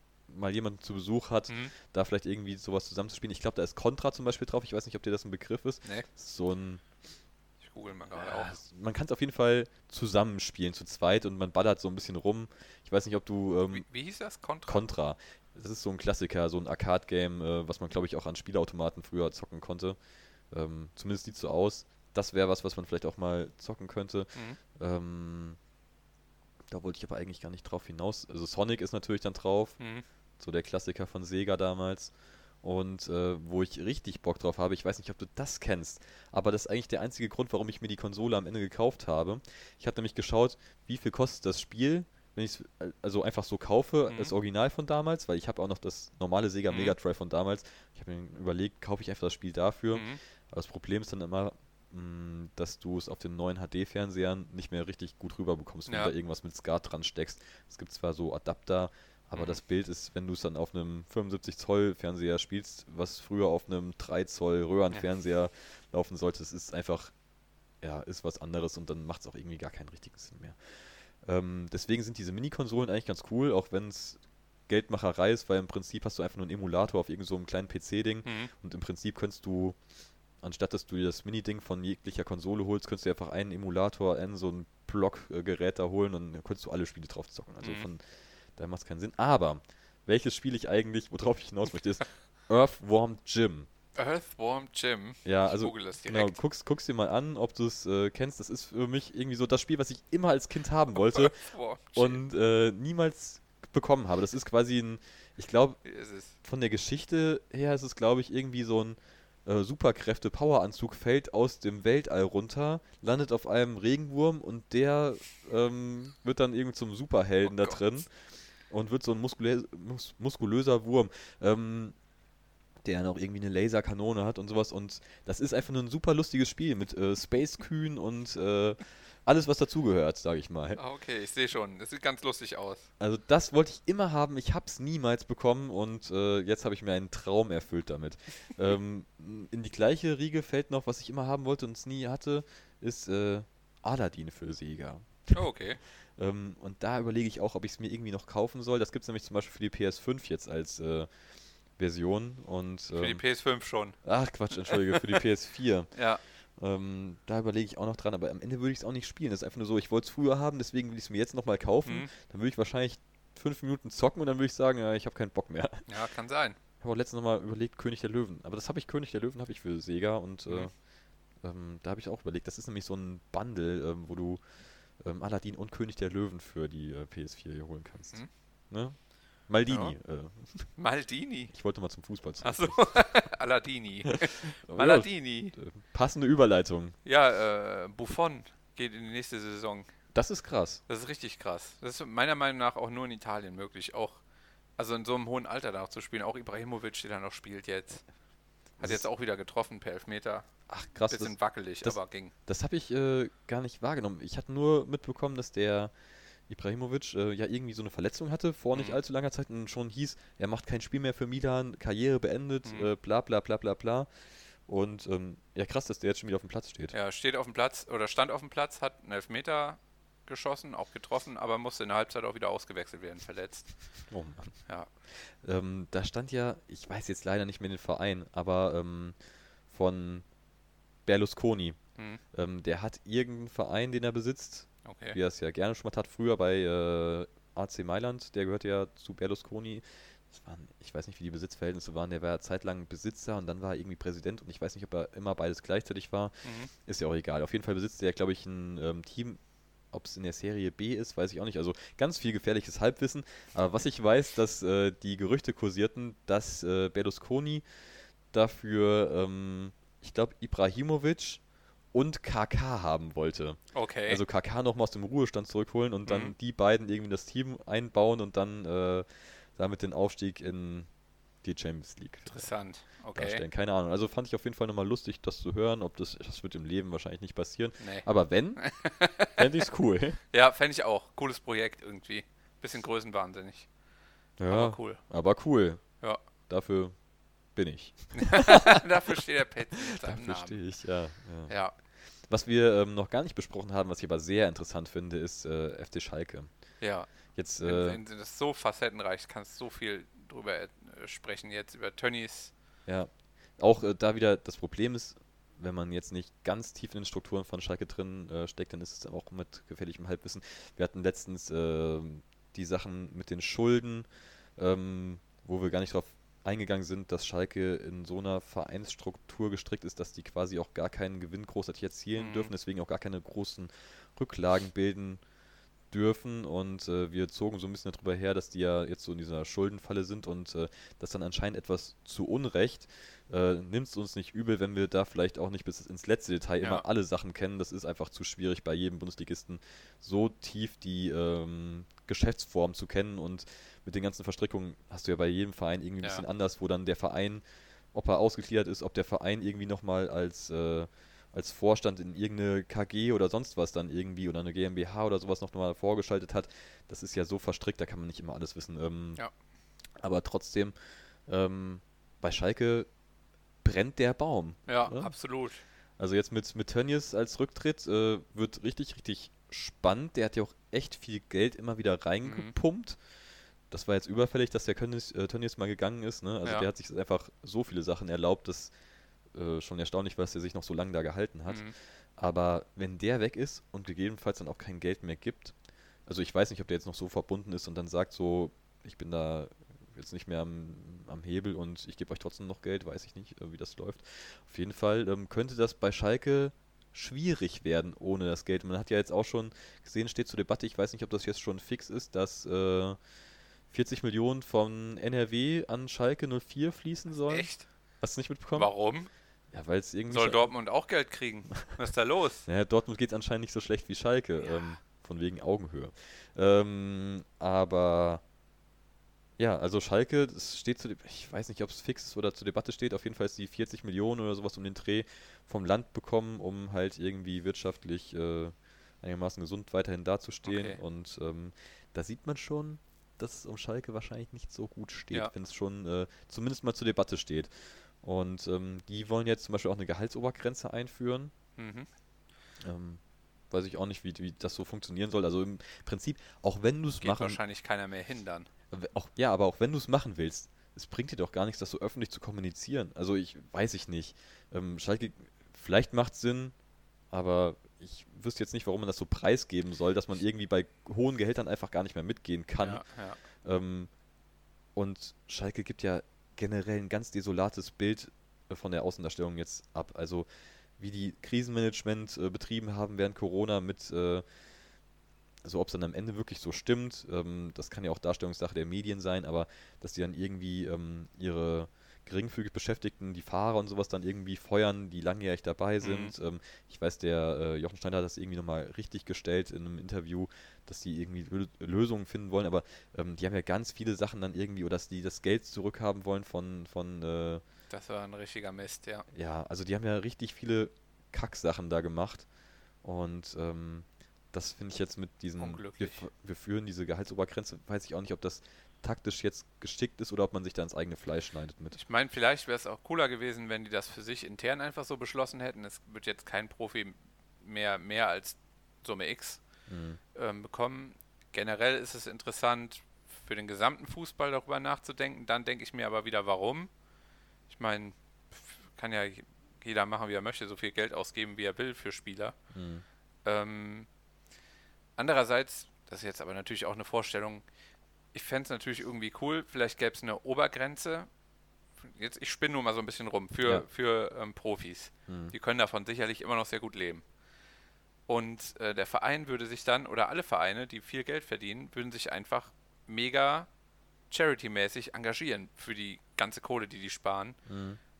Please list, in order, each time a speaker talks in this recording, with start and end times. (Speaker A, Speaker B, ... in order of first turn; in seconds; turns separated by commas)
Speaker A: 0.3-6.8, Speaker B: 7.6-8.6, Speaker A: 8.1-13.8, Speaker B: 13.7-14.9, Speaker A: 14.7-20.0, Speaker A: 20.5-25.6, Speaker A: 26.7-29.8, Speaker B: 29.8-30.0, Speaker A: 30.4-32.1, Speaker A: 32.6-67.1, Speaker B: 44.1-44.3, Speaker B: 46.7-47.0, Speaker B: 49.9-50.2, Speaker B: 55.9-56.1, Speaker B: 59.3-59.6, Speaker A: 67.8-79.8, Speaker B: 78.2-78.5, Speaker A: 80.4-88.0, Speaker B: 87.6-87.9, Speaker A: 88.5-93.7, Speaker B: 94.0-96.4, Speaker A: 95.2-101.4, Speaker B: 101.0-102.2, Speaker A: 101.9-105.8, Speaker B: 105.8-106.3, Speaker A: 106.4-118.1, Speaker B: 117.5-117.8, Speaker A: 118.7-121.9, Speaker A: 122.8-130.8, Speaker B: 130.8-132.9, Speaker A: 133.0-145.4, Speaker B: 145.3-145.8, Speaker A: 146.2-151.1, Speaker A: 151.8-153.2, Speaker B: 152.9-154.0, Speaker A: 154.0-155.9, Speaker B: 154.7-155.2, Speaker B: 155.9-156.2, Speaker A: 156.6-165.9, Speaker B: 165.9-166.6, Speaker A: 166.8-170.7, Speaker A: 171.4-174.4, Speaker A: 175.0-180.7, Speaker B: 179.7-179.9, Speaker B: 180.8-181.5, Speaker A: 181.5-183.0, Speaker B: 182.4-185.5, Speaker A: 184.7-186.9, Speaker B: 187.0-189.9, Speaker A: 190.1-190.8, Speaker B: 190.9-194.2, Speaker B: 194.8-198.0, Speaker A: 198.8-199.0, Speaker B: 198.8-200.5, Speaker A: 200.7-205.9, Speaker B: 201.1-202.3, Speaker A: 206.5-214.1, Speaker B: 212.6-212.9, Speaker A: 214.7-216.9, Speaker B: 216.9-223.7, Speaker A: 224.1-224.6, Speaker A: 225.1-229.2, Speaker A: 229.7-230.2, Speaker A: 231.0-231.8, Speaker A: 232.3-249.4, Speaker B: 234.8-235.2, Speaker B: 246.4-246.7, Speaker A: 249.9-257.6, Speaker A: 258.3-261.4, Speaker A: 261.9-270.9, Speaker B: 263.7-264.2, Speaker B: 266.1-266.3, Speaker A: 271.4-272.5, Speaker B: 272.3-273.4, Speaker A: 273.1-278.6, Speaker B: 277.8-278.1, Speaker B: 278.6-279.4, Speaker A: 279.3-280.2, Speaker B: 280.3-283.7, Speaker A: 284.4-285.9, Speaker B: 284.5-285.0, Speaker A: 286.5-286.9, Speaker A: 287.5-288.8, Speaker B: 288.1-290.6, Speaker A: 289.9-291.5, Speaker B: 291.5-291.7, Speaker A: 292.3-296.5, Speaker B: 296.8-297.1, Speaker A: 297.3-298.0, Speaker B: 297.6-302.5, Speaker A: 302.9-325.2, Speaker B: 322.1-322.5, Speaker A: 325.9-359.2, Speaker A: 360.0-360.7, Speaker A: 361.3-362.9, Speaker A: 363.6-365.1, Speaker B: 364.7-365.6, Speaker A: 366.0-373.0, Speaker B: 372.2-372.5, Speaker A: 373.7-378.7, Speaker A: 379.3-385.5, Speaker B: 381.5-381.7, Speaker A: 386.1-403.0, Speaker A: 403.7-407.5, Speaker B: 407.2-407.6, Speaker A: 408.0-408.7, Speaker B: 408.6-409.1, Speaker A: 409.5-410.5, Speaker B: 410.1-412.4, Speaker A: 412.4-418.2, Speaker B: 414.4-414.6, Speaker A: 419.4-441.3, Speaker B: 430.4-430.8, Speaker B: 441.6-441.9, Speaker A: 442.6-443.0, Speaker A: 443.5-447.4, Speaker B: 447.0-448.5, Speaker A: 448.7-456.5, Speaker A: 457.1-462.8, Speaker B: 462.6-463.2, Speaker A: 463.4-463.9, Speaker A: 464.7-470.3, Speaker A: 470.8-474.2, Speaker A: 475.4-497.4, Speaker B: 485.8-486.1, Speaker B: 497.7-499.0, Speaker A: 499.1-502.2, Speaker A: 502.8-511.8, Speaker B: 505.4-506.1, Speaker B: 511.7-519.4, Speaker A: 519.7-520.0, Speaker B: 520.1-526.7, Speaker B: 527.5-532.3, Speaker A: 532.5-532.8, Speaker B: 533.2-533.9, Speaker B: 535.0-537.4, Speaker B: 538.1-541.1, Speaker B: 541.8-547.0, Speaker A: 545.1-545.3, Speaker B: 548.1-553.5, Speaker B: 554.1-557.4, Speaker A: 557.5-557.8